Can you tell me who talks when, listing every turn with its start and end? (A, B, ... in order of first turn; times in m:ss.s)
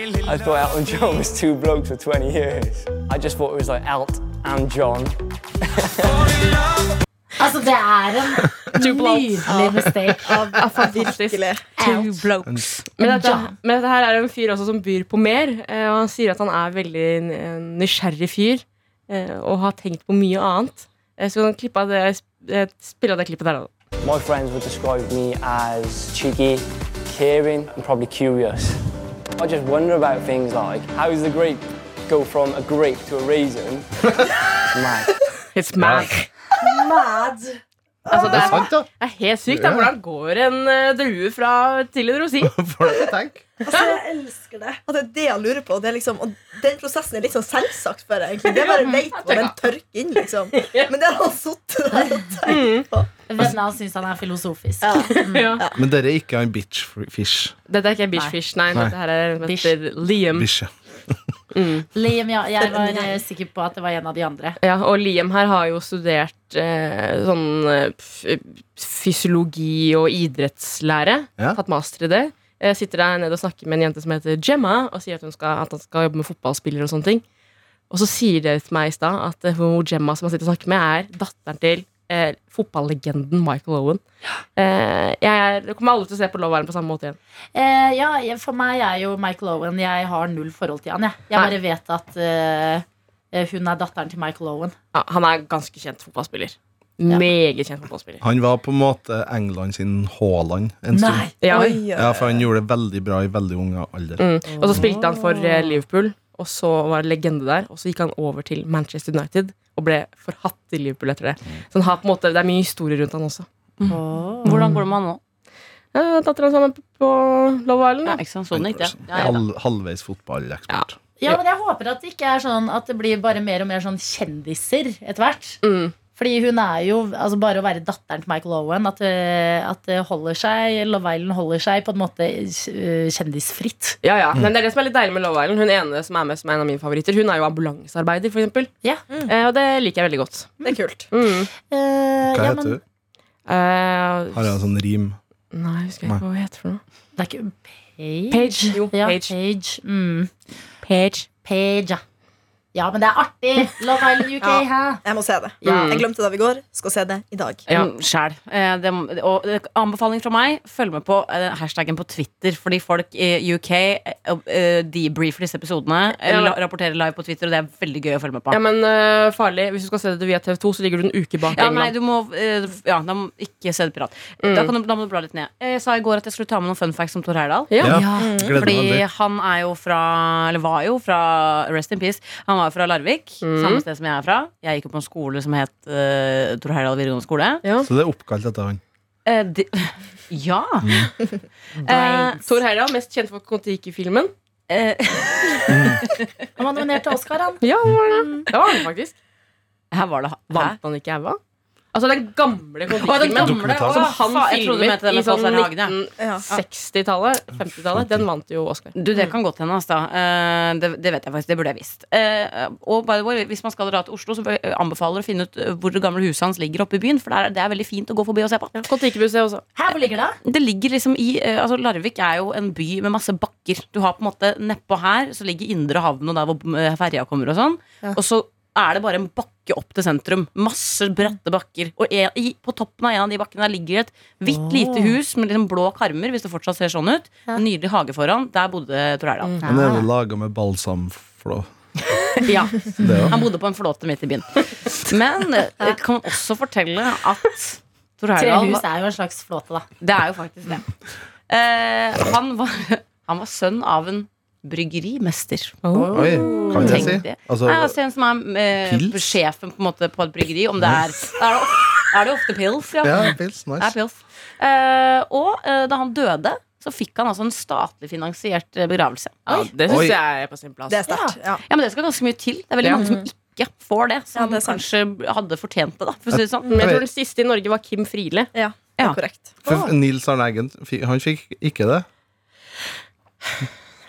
0:00.2-0:06.2 A
0:07.4-0:10.3 B
0:08.8-0:09.5 C
0:09.5-0:11.7 D
0:10.6-0:11.5 C
0:11.8-0:12.9 E
0:11.8-0:12.2 B
0:13.0-0:23.7 C
0:13.0-0:13.5 B
0:24.0-0:28.8 A
0:29.4-0:33.9 A
0:34.7-0:35.1 A
0:35.5-0:36.3 C
0:35.8-0:36.1 F
0:36.6-0:37.5 B
0:38.1-0:38.6 B
0:38.1-0:42.6 C
0:38.2-0:38.9 F
0:39.5-0:39.9 F
0:42.4-0:43.5 F
0:43.7-0:44.0 D
0:43.7-0:44.8 B
0:44.8-0:53.1 D
0:48.5-0:49.6 C
0:50.5-0:50.9 C
0:52.5-0:52.9 C
0:53.3-0:55.6 B
0:54.8-0:55.8 D
0:55.1-0:55.6 C
0:55.8-0:57.6 F
0:57.7-1:00.5 C
0:59.4-0:59.8 B
1:00.3-1:01.2 F
1:01.5-1:01.9 C
1:02.0-1:04.6 B
1:02.6-1:03.2 D
1:04.6-1:17.2 C
1:17.9-1:24.0 C
1:24.6-1:27.2 C
1:27.6-1:34.8 B
1:34.9-1:38.2 C
1:38.2-1:41.3 F
1:40.9-1:41.8 B
1:41.4-1:41.8 C
1:41.5-1:42.5 D
1:41.9-1:44.9 F
1:44.2-1:54.0 C
1:44.5-1:45.8 B
1:53.9-1:54.8 B
1:54.4-1:55.2 E
1:55.9-1:58.2 C
1:58.0-1:59.4 E
1:58.5-2:01.0 F
2:00.7-2:01.3 C
2:01.2-2:05.6 B
2:05.6-2:06.0 C
2:06.2-2:14.0 B
2:14.0-2:18.7 C
2:19.3-2:21.5 C
2:20.6-2:21.1 D
2:21.7-2:22.8 B
2:22.3-2:22.8 F
2:23.5-2:24.5 C
2:24.3-2:25.2 F
2:25.5-2:26.8 C
2:27.2-2:30.3 B
2:28.3-2:29.3 C
2:30.8-2:31.2 C
2:31.4-2:32.0 B
2:32.7-2:35.0 B
2:34.4-2:37.6 D
2:35.6-2:36.1 C
2:37.7-2:48.6 E
2:46.2-2:46.6 C
2:48.5-2:51.9 C
2:51.5-3:07.6 E
2:54.4-2:54.7 C
2:57.7-2:58.0 C
2:57.8-2:59.0 F
2:58.2-2:58.8 D
3:03.4-3:03.8 C
3:07.8-3:08.8 F
3:09.3-3:11.1 E
3:10.8-3:11.1 F
3:11.8-3:12.4 B
3:11.9-3:12.4 E
3:12.0-3:14.3 C
3:14.7-3:16.3 E
3:15.7-3:16.0 F
3:16.6-3:18.5 B
3:17.6-3:19.1 C
3:19.9-3:20.8 E
3:20.5-3:21.4 C
3:21.9-3:28.9 C
3:22.9-3:26.6 E
3:23.3-3:24.1 F
3:27.9-3:28.2 F
3:29.0-3:38.8 E
3:38.8-3:39.6 C
3:39.8-3:40.4 B
3:40.4-3:59.6 E
3:54.5-3:55.2 B
3:59.6-4:00.1 B
3:59.6-4:01.7 F
4:02.4-4:08.8 E
4:03.0-4:03.4 B
4:03.0-4:03.4 F
4:08.4-4:09.9 B
4:10.0-4:10.8 E
4:11.5-4:15.8 E
4:15.8-4:17.0 C
4:15.9-4:17.1 B
4:16.1-4:18.0 F
4:16.6-4:29.7 E
4:18.8-4:19.4 F
4:23.0-4:23.9 F
4:29.5-4:31.1 C
4:29.9-4:30.2 F
4:30.9-4:31.6 D
4:31.1-4:31.4 B
4:31.7-4:36.8 E
4:32.8-4:33.1 C
4:33.0-4:33.2 D
4:34.4-4:34.8 D
4:36.3-4:37.0 F
4:36.7-4:38.5 C
4:38.5-4:39.6 D
4:39.6-4:42.1 F